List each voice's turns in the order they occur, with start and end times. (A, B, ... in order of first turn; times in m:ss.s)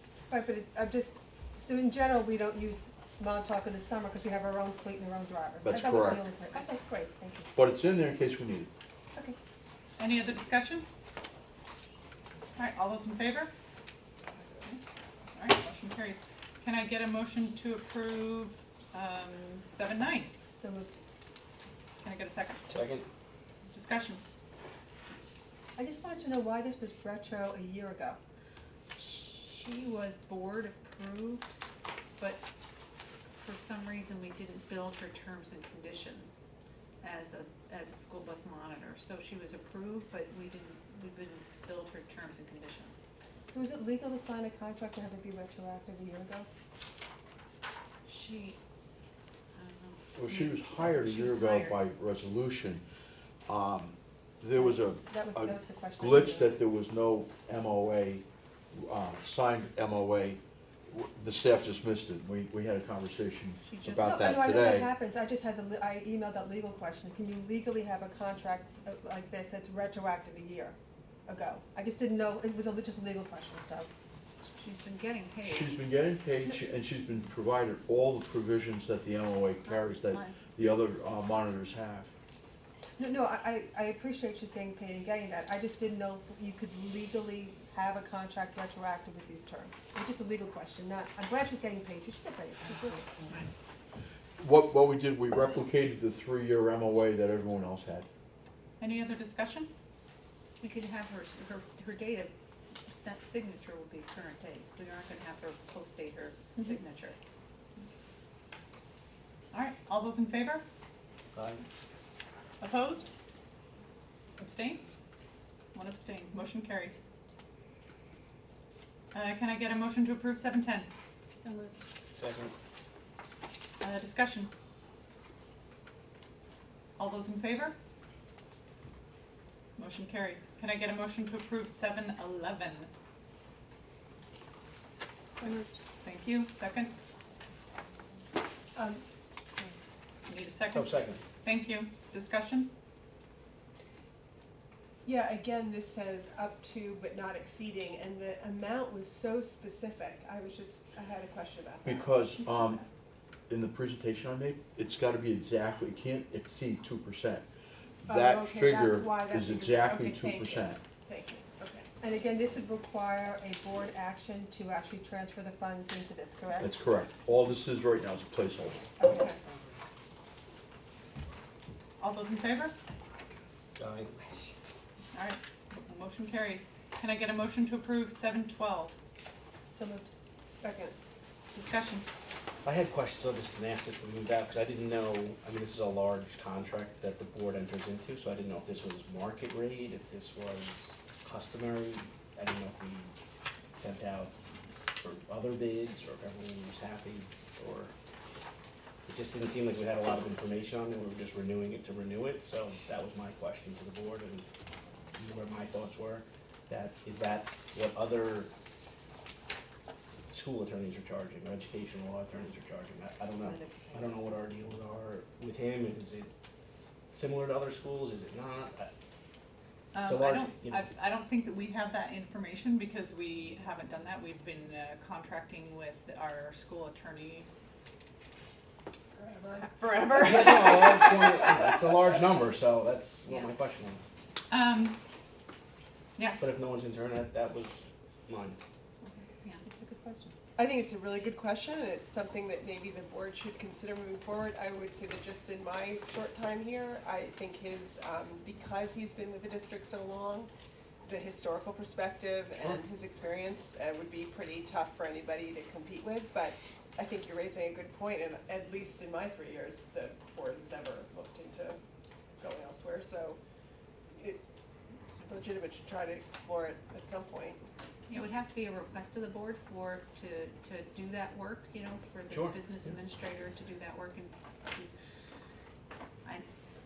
0:00.3-0:07.5 A
0:05.6-0:06.2 B
0:07.5-0:08.7 B
0:10.0-0:10.8 C
0:12.6-0:13.5 C
0:15.3-0:20.3 C
0:20.5-0:21.0 A
0:22.0-0:22.7 C
0:22.7-0:23.1 D
0:23.7-0:24.2 C
0:25.8-0:28.2 A
0:29.0-0:31.5 E
0:32.2-0:32.4 E
0:33.4-0:36.5 E
0:37.0-0:43.0 E
0:43.4-0:46.5 A
0:48.0-0:48.6 E
0:49.5-0:51.8 E
0:50.2-0:52.8 B
0:53.5-1:04.9 B
0:54.6-0:56.6 A
1:03.6-1:04.6 E
1:04.0-1:13.9 A
1:14.6-1:15.8 E
1:15.4-1:22.1 B
1:19.6-1:20.4 E
1:23.0-1:33.4 A
1:34.4-1:38.1 B
1:38.8-1:39.7 C
1:40.6-1:42.3 E
1:42.9-1:47.2 E
1:49.5-1:50.6 C
1:51.3-1:51.6 D
1:52.6-1:53.1 C
1:54.4-1:54.8 C
1:55.7-1:57.0 C
1:59.1-2:00.9 C
2:01.3-2:01.8 A
2:02.1-2:02.5 D
2:03.8-2:04.5 C
2:07.0-2:07.8 C
2:09.8-2:12.9 C
2:15.3-2:15.8 A
2:16.0-2:16.9 C
2:18.7-2:19.8 A
2:20.2-2:22.7 C
2:20.7-2:21.2 D
2:25.0-2:32.9 F
2:31.8-2:32.8 B
2:33.5-2:37.4 B
2:38.0-2:40.8 B
2:38.0-2:41.9 F
2:42.0-2:46.7 A
2:46.6-2:48.8 B
2:49.0-2:49.3 A
2:49.0-2:49.3 F
2:52.0-2:52.7 C
2:53.8-2:54.1 D
2:55.1-2:58.9 C
2:59.7-3:00.1 A
3:00.5-3:00.9 F
3:01.5-3:02.0 C
3:02.6-3:13.1 D
3:13.7-3:14.3 D
3:15.0-3:17.9 D
3:19.0-3:24.5 D
3:25.1-3:28.5 D
3:30.3-3:36.3 D
3:33.4-3:34.0 A
3:37.1-3:38.9 D
3:39.9-3:47.5 C
3:40.0-3:40.9 D
3:49.4-3:51.7 C
3:50.1-3:54.1 D
3:54.5-3:55.0 C
3:56.4-3:58.6 D
3:59.0-3:59.6 E
3:59.6-4:00.4 A
4:00.6-4:10.5 F
4:11.0-4:21.8 F
4:22.4-4:23.4 F
4:24.2-4:24.4 F
4:25.1-4:27.6 F
4:28.1-4:34.9 E
4:32.3-4:33.0 D